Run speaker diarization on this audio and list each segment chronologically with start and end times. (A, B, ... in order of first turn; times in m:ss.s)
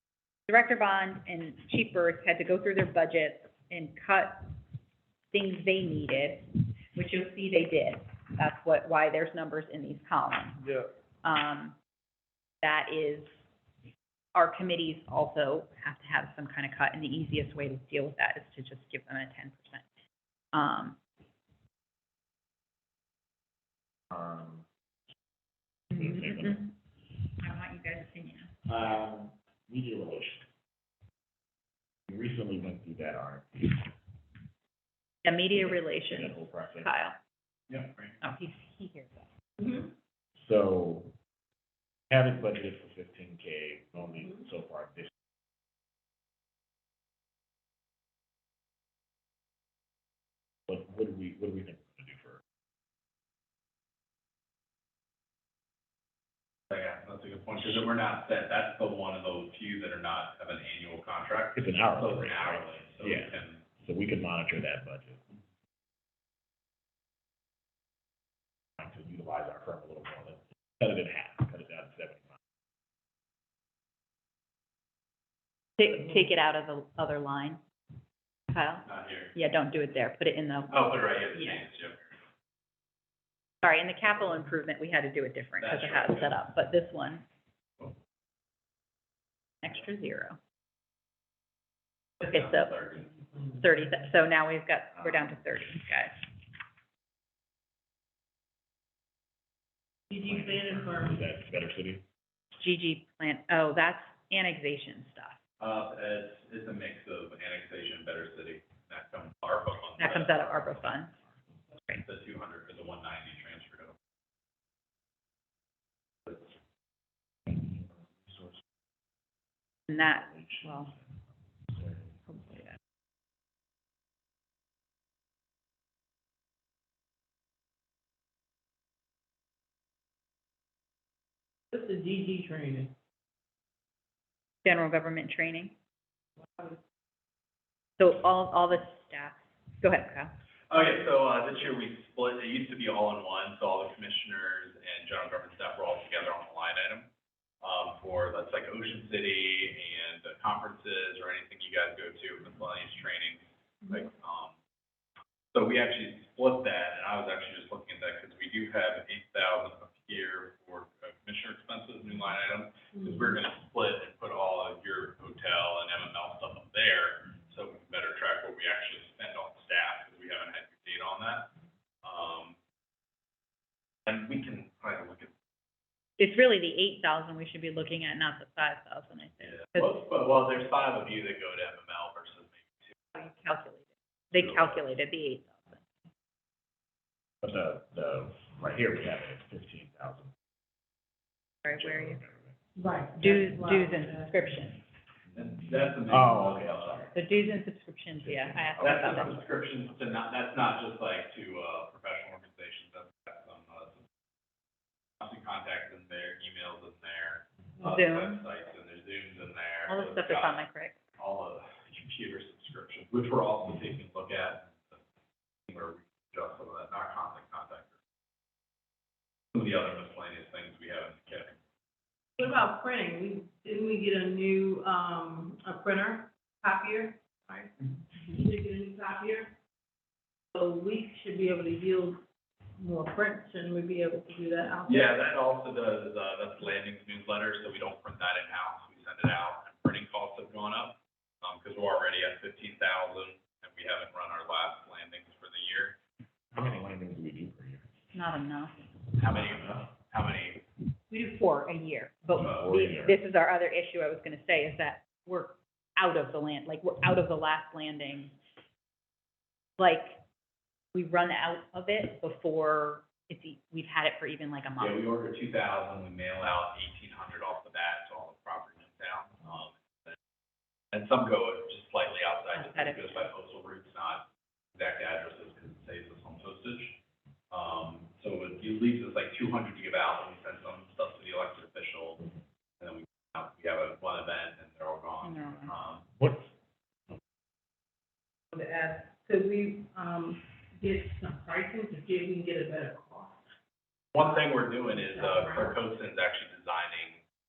0:00.5-0:04.5 A
0:05.3-0:10.6 A
0:10.6-0:10.9 B
0:11.2-0:11.8 A
0:12.6-0:13.3 A
0:14.3-0:19.8 A
0:20.5-0:21.0 A
0:24.1-0:24.7 B
0:25.9-0:26.7 A
0:25.9-0:26.7 B
0:27.4-0:28.5 A
0:28.7-0:30.5 B
0:32.1-0:34.0 B
0:35.2-0:37.2 A
0:35.5-0:36.9 B
0:37.7-0:38.2 C
0:38.2-0:39.3 A
0:39.6-0:39.9 D
0:40.4-0:41.2 B
0:42.1-0:45.1 B
0:50.7-0:52.4 B
0:56.7-1:03.6 C
1:01.6-1:05.3 B
1:08.8-1:12.3 B
1:15.8-1:17.6 A
1:18.5-1:20.8 A
1:18.8-1:19.3 C
1:20.7-1:22.2 C
1:21.3-1:21.6 A
1:23.6-1:27.2 A
1:25.6-1:26.4 C
1:29.6-1:30.4 A
1:32.2-1:32.9 A
1:32.2-1:33.0 C
1:33.5-1:36.2 A
1:35.0-1:35.4 B
1:40.1-1:41.2 D
1:40.2-1:42.0 B
1:42.6-1:45.4 A
1:45.6-1:50.7 C
1:50.0-1:51.1 A
1:52.0-1:53.9 C
1:57.4-1:58.6 B
1:59.9-2:00.9 A
2:00.0-2:02.5 B
2:02.3-2:02.6 A
2:11.7-2:12.9 D
2:14.6-2:15.8 A
2:18.0-2:20.3 A
2:20.7-2:27.1 C
2:27.6-2:34.5 C
2:35.5-2:51.5 C
2:42.9-2:43.2 D
2:52.0-2:52.6 C
2:54.1-2:55.3 C
2:56.2-3:00.0 A
2:59.4-3:03.0 C
3:03.1-3:05.8 A
3:04.3-3:04.8 C
3:07.4-3:10.3 B
3:11.6-3:12.2 A
3:11.7-3:12.6 B
3:12.8-3:14.3 D
3:13.2-3:14.8 A
3:15.3-3:17.1 C
3:16.1-3:17.2 B
3:17.1-3:19.4 A
3:18.2-3:19.4 B
3:18.8-3:24.0 C
3:25.2-3:30.6 C
3:27.8-3:28.4 A
3:29.9-3:31.0 A
3:31.2-3:35.0 C
3:35.7-3:37.9 C
3:39.5-3:41.6 C
3:42.4-3:49.6 D
3:50.5-3:52.2 D
3:52.8-3:55.2 D
3:54.9-4:06.0 C
4:06.5-4:07.9 B
4:08.1-4:09.0 A
4:09.2-4:10.6 C
4:09.3-4:09.9 B
4:11.1-4:18.4 A
4:12.4-4:13.2 B
4:12.4-4:12.7 C
4:19.8-4:20.2 A
4:20.9-4:25.0 A
4:24.8-4:30.2 C
4:30.9-4:37.0 C
4:32.5-4:33.3 A
4:37.5-4:42.3 C
4:42.8-4:46.0 C
4:45.2-4:45.7 A
4:46.2-4:46.5 B
4:48.5-4:53.5 D
4:54.1-4:57.2 C
4:54.2-4:55.8 D